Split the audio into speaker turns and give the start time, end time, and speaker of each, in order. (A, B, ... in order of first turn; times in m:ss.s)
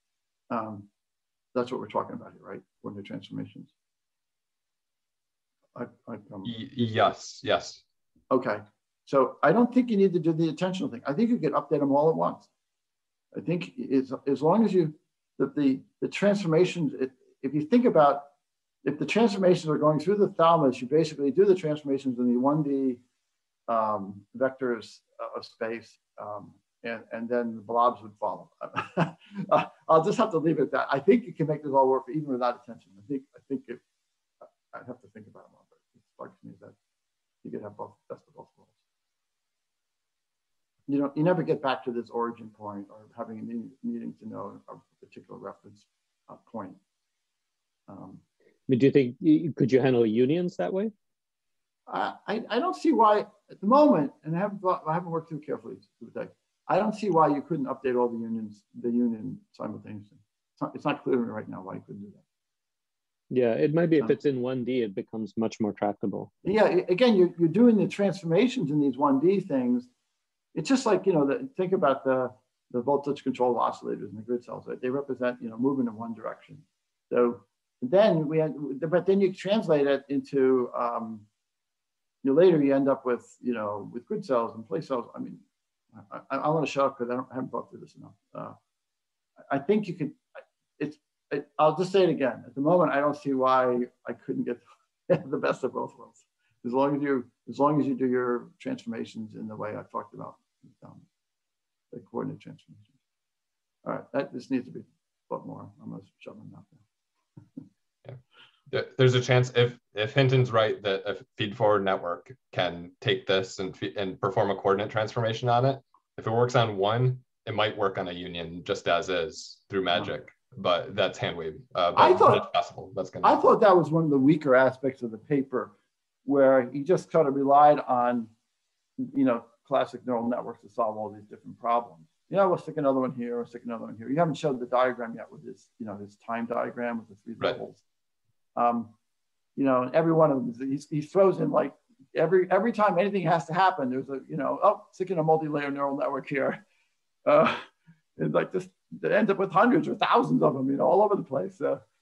0:00.5-0:00.9 A
0:01.5-0:03.7 A
0:05.7-0:06.5 A
0:06.4-0:07.8 B
0:08.3-0:12.5 A
0:13.3-0:18.3 A
0:18.8-0:23.0 A
0:23.7-0:33.8 A
0:34.7-0:36.8 A
0:37.4-0:38.8 A
0:40.9-0:46.8 A
0:47.9-0:48.2 A
0:48.7-0:50.9 C
0:51.9-1:02.2 A
1:03.3-1:06.3 C
1:06.4-1:09.9 A
1:10.5-1:21.3 A
1:22.2-1:25.4 A
1:25.9-1:28.6 A
1:29.5-1:30.2 A
1:30.8-1:41.0 A
1:41.9-1:42.9 A
1:43.8-1:46.8 A
1:48.7-2:03.5 B
2:01.9-2:02.5 A
2:03.2-2:08.3 A
2:09.0-2:17.8 A
2:18.6-2:18.9 A
2:19.6-2:26.6 A
2:27.2-2:31.8 A